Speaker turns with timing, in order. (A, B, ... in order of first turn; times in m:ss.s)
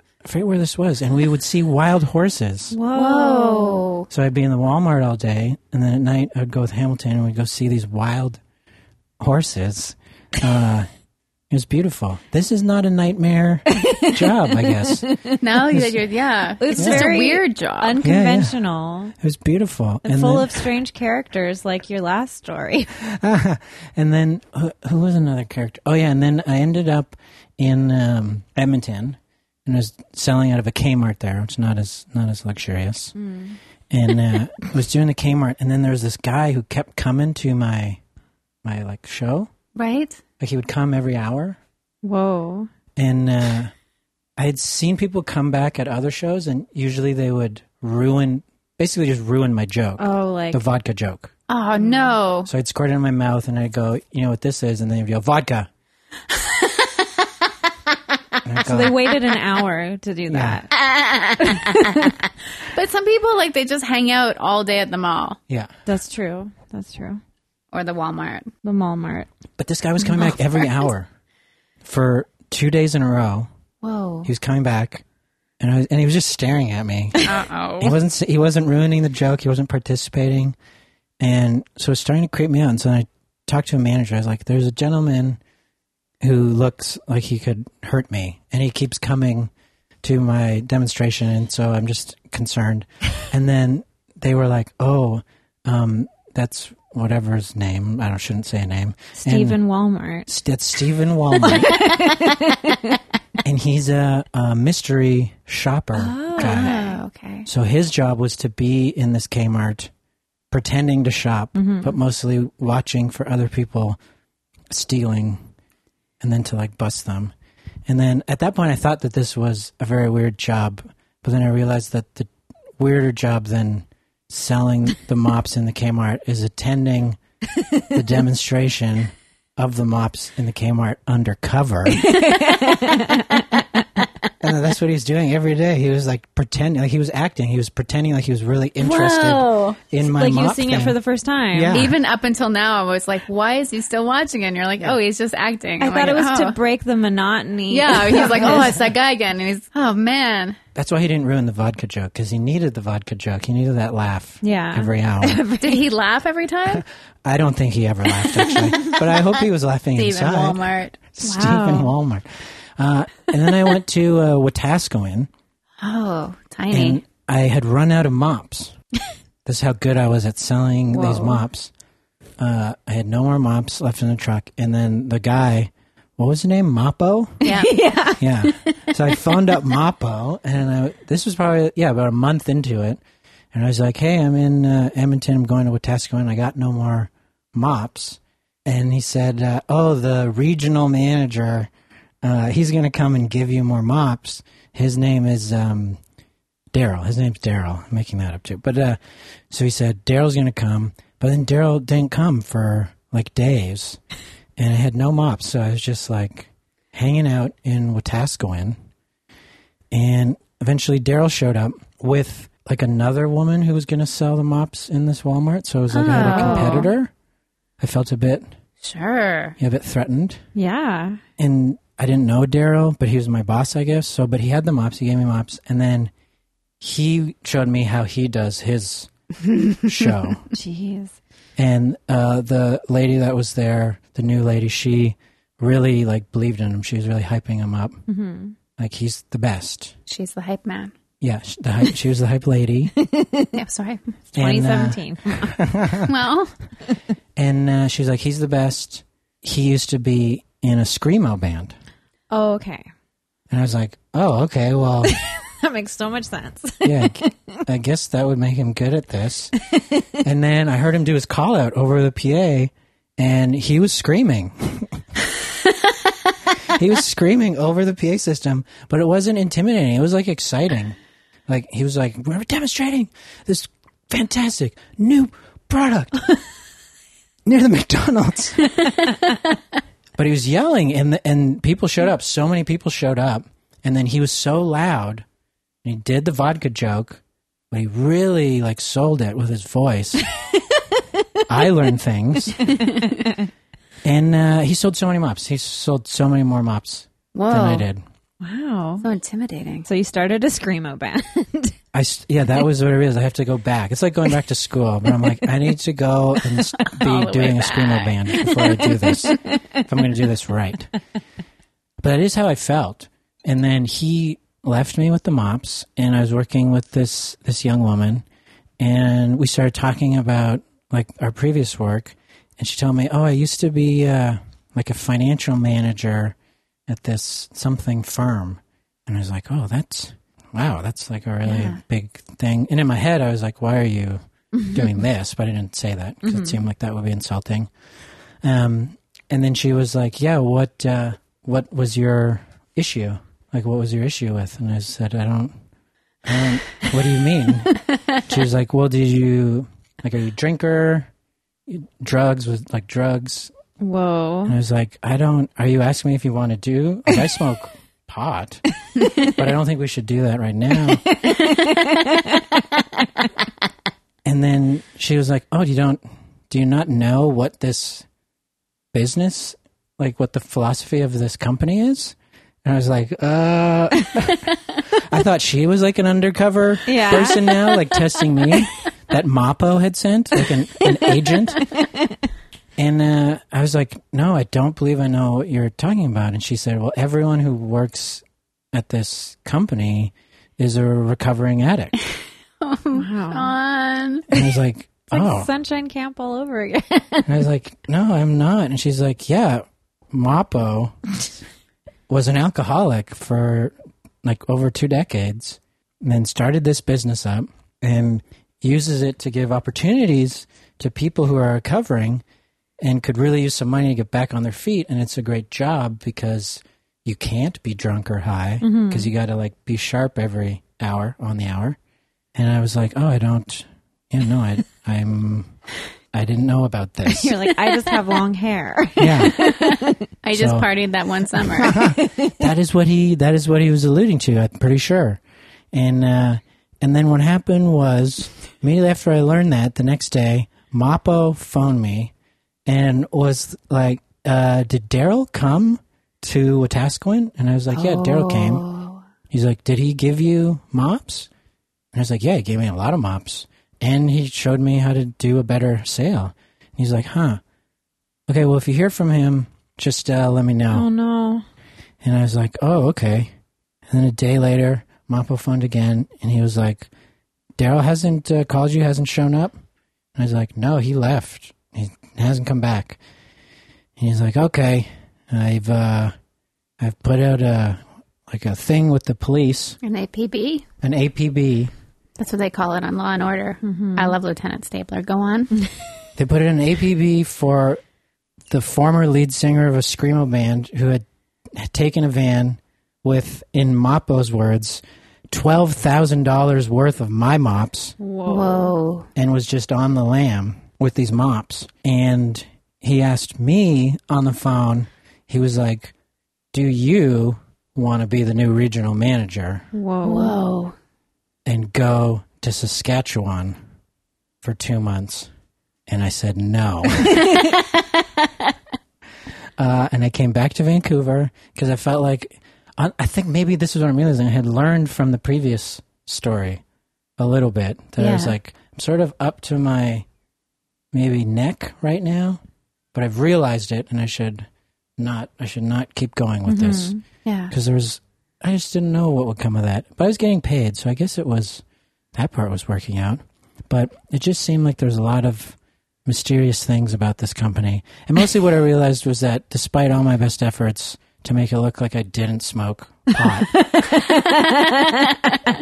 0:00.2-0:02.8 A
0:02.7-0:03.8 B
0:02.9-0:04.1 C
0:04.1-0:08.4 A
0:09.2-0:10.9 A
0:11.5-0:15.0 A
0:13.7-0:15.4 B
0:15.4-0:18.0 C
0:15.7-0:16.0 A
0:16.6-0:19.1 B
0:16.8-0:17.1 A
0:18.0-0:18.6 A
0:19.2-0:20.6 A
0:20.0-0:22.9 B
0:23.0-0:33.1 A
0:33.1-0:33.6 B
0:33.9-0:38.0 A
0:38.6-0:39.5 A
0:39.7-0:40.2 C
0:40.4-0:41.6 A
0:42.0-0:42.7 B
0:43.0-0:43.7 A
0:44.4-0:51.3 A
0:50.0-0:50.6 B
0:51.5-0:52.5 C
0:52.4-0:55.7 A
0:56.5-0:56.9 C
0:58.4-0:59.0 A
0:58.6-1:00.7 B
1:00.3-1:00.6 A
1:00.8-1:02.1 C
1:01.4-1:02.1 B
1:02.7-1:05.4 C
1:05.8-1:07.2 B
1:07.7-1:08.5 C
1:08.6-1:09.3 B
1:09.6-1:11.1 A
1:11.8-1:13.5 A
1:13.8-1:14.3 C
1:14.2-1:15.0 A
1:15.6-1:20.6 A
1:17.2-1:18.0 C
1:21.2-1:25.4 A
1:26.2-1:29.5 A
1:30.0-1:39.6 A
1:39.2-1:40.3 B
1:40.3-1:41.8 A
1:41.4-1:43.0 B
1:43.4-1:46.8 A
1:45.9-1:47.0 B
1:46.4-1:47.4 C
1:47.4-1:49.9 A
1:50.5-1:54.0 A
1:51.5-1:51.9 B
1:54.7-1:55.4 A
1:56.2-1:57.3 A
1:57.8-2:07.2 A
2:07.6-2:07.9 B
2:07.9-2:12.2 A
2:11.9-2:13.8 B
2:14.4-2:21.0 A
2:18.8-2:19.4 B
2:19.2-2:19.8 C
2:20.0-2:21.8 B
2:21.5-2:22.0 A
2:21.7-2:26.6 C
2:25.8-2:28.7 B
2:27.7-2:30.6 C
2:30.7-2:35.4 A
2:34.4-2:35.8 B
2:35.6-2:36.8 C
2:36.7-2:40.6 A
2:39.9-2:41.0 C
2:41.1-2:45.3 A
2:41.2-2:41.9 B
2:45.8-2:47.0 C
2:46.7-2:48.7 A
2:49.4-2:51.7 A
2:50.9-2:51.4 B
2:52.4-2:57.5 A
2:57.4-2:58.9 B
2:57.4-2:57.7 C
2:58.2-3:03.0 A
3:03.5-3:11.7 A
3:12.2-3:16.0 A
3:16.7-3:19.0 A
3:19.5-3:24.0 A
3:24.6-3:28.8 A
3:29.9-3:37.1 A
3:35.9-3:36.9 C
3:36.1-3:36.9 B
3:37.8-3:38.5 A
3:38.8-3:39.6 C
3:39.6-3:40.4 A
3:40.5-3:41.2 B
3:41.4-3:46.1 A
3:46.8-3:49.1 A
3:49.8-3:50.4 A
3:50.5-3:51.2 B
3:51.6-3:58.0 A
3:58.1-3:58.5 B
3:58.8-3:59.9 A
4:00.1-4:00.9 C
4:01.2-4:02.9 A
4:03.0-4:03.5 B
4:03.5-4:04.0 C
4:04.3-4:05.6 B
4:04.3-4:06.1 A
4:06.0-4:06.5 C
4:07.4-4:11.7 A
4:12.3-4:12.9 B
4:13.5-4:15.1 A
4:15.0-4:17.6 B
4:16.8-4:19.5 A
4:19.7-4:20.0 B
4:20.2-4:25.0 A
4:26.6-4:36.3 A
4:37.4-4:38.7 A
4:40.2-4:45.2 A
4:45.8-4:50.2 A
4:50.5-4:51.0 B
4:51.5-4:52.7 A
4:52.6-4:53.4 B
4:54.0-4:58.0 A
4:57.3-4:57.9 C
4:58.4-4:59.0 B
4:59.0-4:59.8 C
4:59.8-5:01.7 B
5:01.9-5:10.9 A
5:06.8-5:08.6 C
5:08.6-5:09.8 B
5:12.0-5:18.2 A
5:18.8-5:26.4 A
5:26.9-5:37.7 A
5:31.4-5:31.8 C
5:34.6-5:34.8 B
5:36.2-5:36.6 B
5:38.4-5:45.5 A
5:46.2-5:51.1 A
5:51.7-5:53.5 A
5:53.8-5:54.6 B
5:54.4-5:58.6 A
5:59.0-5:59.3 B
5:59.2-6:01.1 A
6:01.0-6:02.6 B
6:04.2-6:08.0 A
6:08.9-6:21.7 A
6:16.9-6:17.8 B
6:21.7-6:22.1 B
6:22.8-6:31.9 A
6:32.6-6:34.3 C
6:32.9-6:33.5 B
6:34.3-6:35.5 A
6:35.1-6:37.3 B
6:37.2-6:41.0 A
6:42.1-6:52.2 A
6:52.8-7:01.8 A
6:58.6-6:59.1 B
7:02.3-7:05.5 A
7:06.1-7:07.4 A
7:07.0-7:10.0 B
7:09.0-7:09.4 A
7:09.4-7:11.9 C
7:10.3-7:10.7 A
7:11.6-7:15.2 A
7:11.8-7:12.3 B
7:15.7-7:22.1 A
7:22.6-7:28.6 A
7:27.7-7:29.0 C
7:29.3-7:31.3 A
7:31.9-7:37.4 A
7:38.3-7:40.9 A
7:40.7-7:41.4 B
7:42.0-7:43.3 A
7:43.9-7:46.9 A
7:47.6-7:49.5 A
7:50.2-7:53.0 A
7:54.0-7:56.1 A
7:56.8-7:59.8 A
7:59.8-8:00.6 C
8:00.8-8:01.7 A
8:02.2-8:05.6 C
8:03.6-8:04.1 B
8:06.2-8:07.8 A
8:08.5-8:17.9 A
8:18.0-8:18.7 B
8:18.2-8:19.1 C
8:19.1-8:25.9 A
8:26.5-8:29.7 A
8:29.7-8:30.4 B
8:30.0-8:30.7 C
8:31.4-8:33.6 A
8:34.4-8:35.3 A
8:35.9-8:37.4 A
8:37.5-8:37.8 C
8:39.6-8:46.6 A
8:47.2-8:50.0 A
8:48.0-8:48.3 C
8:50.9-8:52.4 A
8:52.9-8:56.9 A
8:56.4-8:57.0 B
8:57.2-8:57.5 C
8:57.5-9:01.6 A
9:02.1-9:13.6 A
9:13.5-9:15.4 B